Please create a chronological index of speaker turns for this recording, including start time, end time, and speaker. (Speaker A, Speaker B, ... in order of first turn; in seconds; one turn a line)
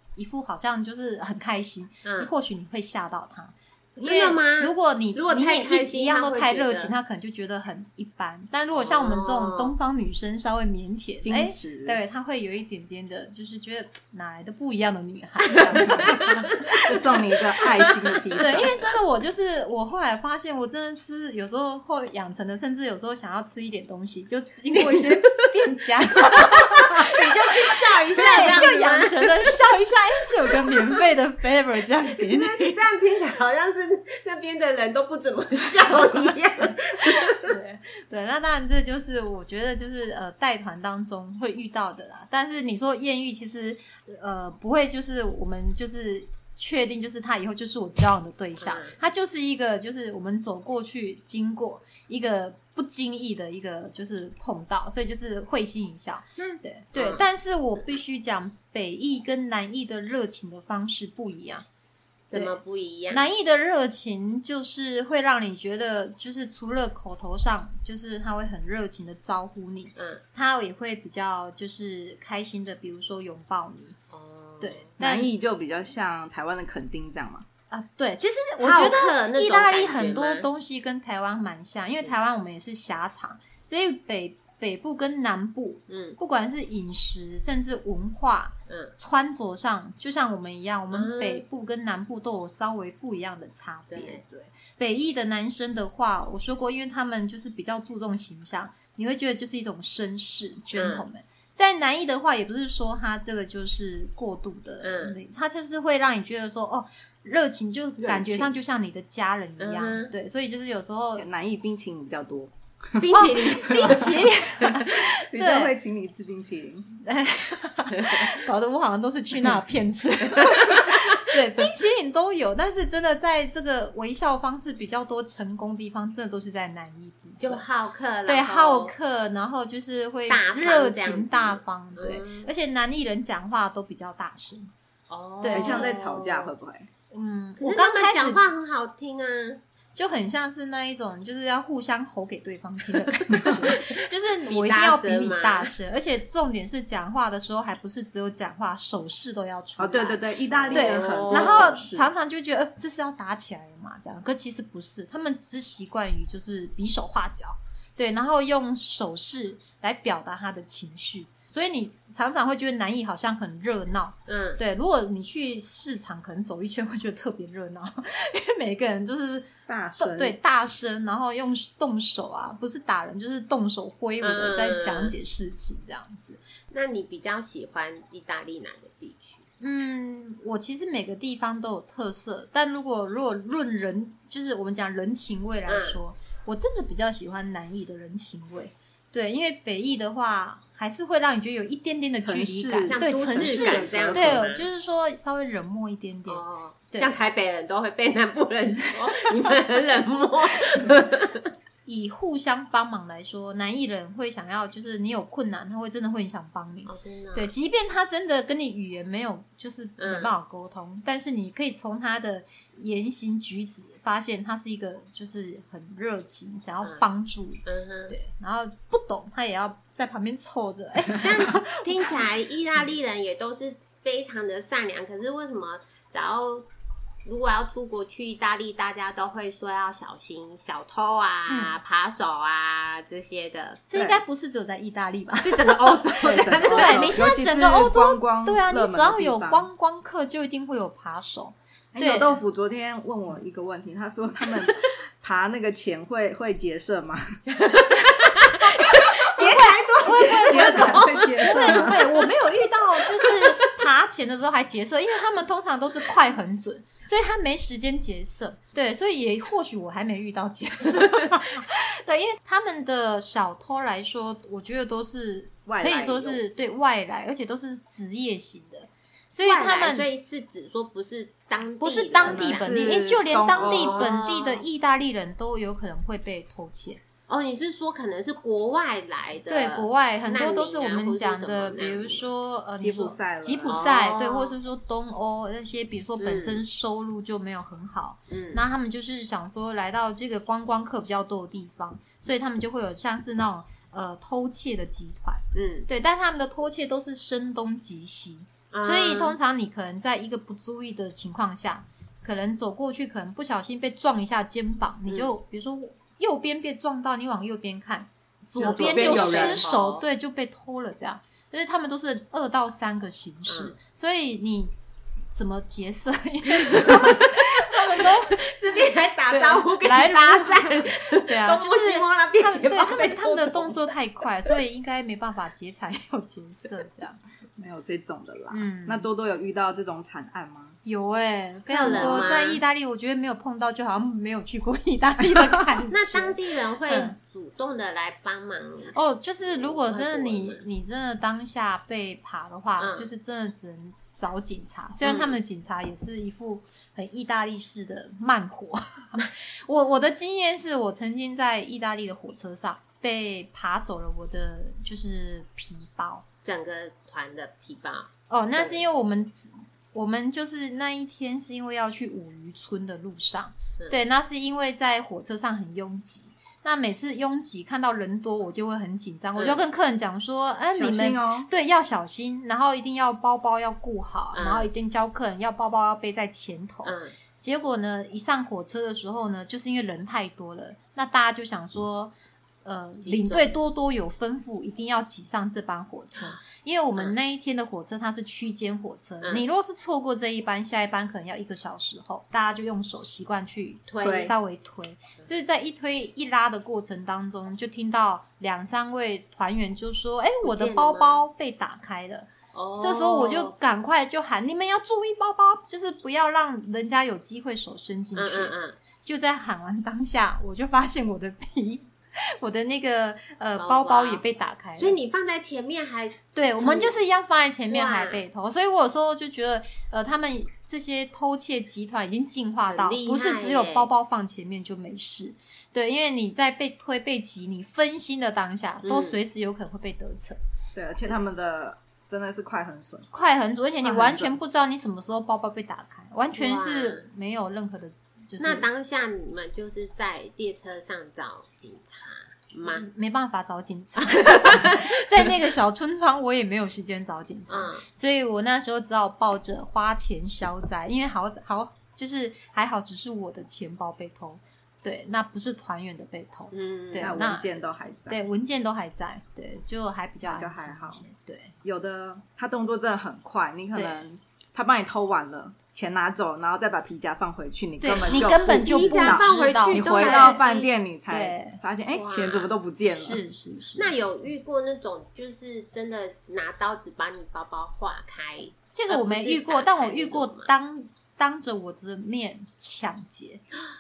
Speaker A: 0.1-16.8
Speaker B: 2.0-2.3
Speaker B: 4.0-7.0
Speaker B: 8.7-9.8
Speaker C: 11.2-12.0
Speaker B: 15.7-16.2
Speaker C: 16.8-18.8
Speaker B: 17.8-18.6
Speaker A: 18.4-32.8
Speaker B: 24.8-25.1
Speaker B: 26.3-29.5
Speaker B: 32.2-37.5
Speaker A: 37.4-61.6
Speaker B: 48.6-49.0
Speaker B: 56.4-57.2
Speaker B: 62.3-63.3
Speaker A: 63.1-74.0
Speaker B: 70.0-70.2
Speaker B: 74.1-74.9
Speaker A: 74.6-75.3
Speaker C: 75.0-77.5
Speaker A: 77.7-111.3
Speaker B: 78.6-80.5
Speaker B: 85.9-86.2
Speaker B: 88.7-88.9
Speaker B: 90.9-91.4
Speaker B: 93.9-94.2
Speaker B: 100.8-101.1
Speaker B: 104.8-105.2
Speaker B: 108.0-108.5
Speaker B: 109.6-110.1
Speaker C: 111.2-114.1
Speaker B: 113.0-114.3
Speaker A: 113.1-115.7
Speaker C: 114.9-117.0
Speaker A: 117.0-127.7
Speaker B: 118.0-118.3
Speaker B: 120.4-121.0
Speaker B: 127.4-128.9
Speaker A: 128.3-134.7
Speaker B: 130.3-132.5
Speaker B: 135.1-136.5
Speaker A: 135.4-135.9
Speaker C: 135.5-136.9
Speaker A: 137.1-138.4
Speaker B: 137.6-139.6
Speaker A: 140.0-176.4
Speaker B: 143.4-145.7
Speaker C: 149.8-152.1
Speaker B: 150.6-151.8
Speaker B: 164.3-164.6
Speaker C: 169.7-170.4
Speaker B: 174.2-175.2
Speaker B: 176.7-179.4
Speaker A: 179.6-197.2
Speaker B: 185.7-186.0
Speaker C: 192.2-194.5
Speaker B: 192.9-194.7
Speaker B: 196.3-201.5
Speaker A: 200.8-201.0
Speaker A: 201.9-222.2
Speaker B: 206.9-207.5
Speaker B: 210.0-210.3
Speaker B: 217.7-218.2
Speaker B: 221.2-226.7
Speaker B: 227.2-233.8
Speaker A: 231.5-231.8
Speaker A: 233.9-242.4
Speaker C: 233.9-234.2
Speaker B: 235.4-237.2
Speaker C: 236.2-239.7
Speaker C: 241.9-247.3
Speaker B: 247.5-252.2
Speaker A: 248.8-270.1
Speaker C: 250.4-252.0
Speaker B: 253.1-253.6
Speaker C: 265.7-266.4
Speaker B: 269.4-273.0
Speaker A: 271.8-277.0
Speaker C: 272.2-274.1
Speaker B: 273.5-274.6
Speaker B: 277.3-282.3
Speaker A: 279.5-314.7
Speaker C: 282.8-283.8
Speaker B: 283.7-284.5
Speaker B: 286.2-286.6
Speaker B: 288.3-288.6
Speaker B: 295.5-295.9
Speaker B: 298.7-299.4
Speaker C: 308.6-309.7
Speaker B: 308.6-310.0
Speaker B: 313.5-313.8
Speaker A: 315.3-318.5
Speaker B: 316.6-323.8
Speaker A: 319.3-327.2
Speaker C: 327.6-330.8
Speaker A: 328.5-329.1
Speaker A: 330.9-337.2
Speaker B: 331.7-332.6
Speaker C: 331.8-332.4
Speaker B: 335.9-340.6
Speaker A: 338.9-356.2
Speaker B: 342.8-343.1
Speaker B: 345.0-345.4
Speaker B: 356.4-358.8
Speaker A: 358.3-415.0
Speaker B: 369.4-369.6
Speaker C: 370.8-371.5
Speaker B: 374.4-374.7
Speaker B: 376.9-377.1
Speaker B: 383.0-383.6
Speaker B: 393.9-394.3
Speaker C: 394.0-394.3
Speaker B: 400.4-401.2
Speaker B: 402.5-403.5
Speaker B: 408.2-408.8
Speaker B: 413.6-414.2
Speaker B: 414.8-417.0
Speaker A: 416.4-430.4
Speaker B: 417.7-418.2
Speaker B: 422.7-423.9
Speaker B: 428.8-429.2
Speaker C: 430.8-433.1
Speaker A: 433.1-438.7
Speaker C: 433.8-434.4
Speaker B: 436.4-437.1
Speaker B: 438.4-442.9
Speaker A: 442.6-457.5
Speaker B: 444.1-444.9
Speaker B: 447.5-447.8
Speaker B: 456.5-457.2
Speaker C: 457.0-458.2
Speaker A: 458.1-461.5
Speaker C: 460.2-461.0
Speaker C: 461.6-473.2
Speaker A: 463.7-464.0
Speaker A: 467.8-470.4
Speaker B: 468.0-470.7
Speaker A: 471.1-471.6
Speaker B: 471.9-472.6
Speaker A: 472.9-473.9
Speaker B: 473.8-480.5
Speaker A: 478.7-483.4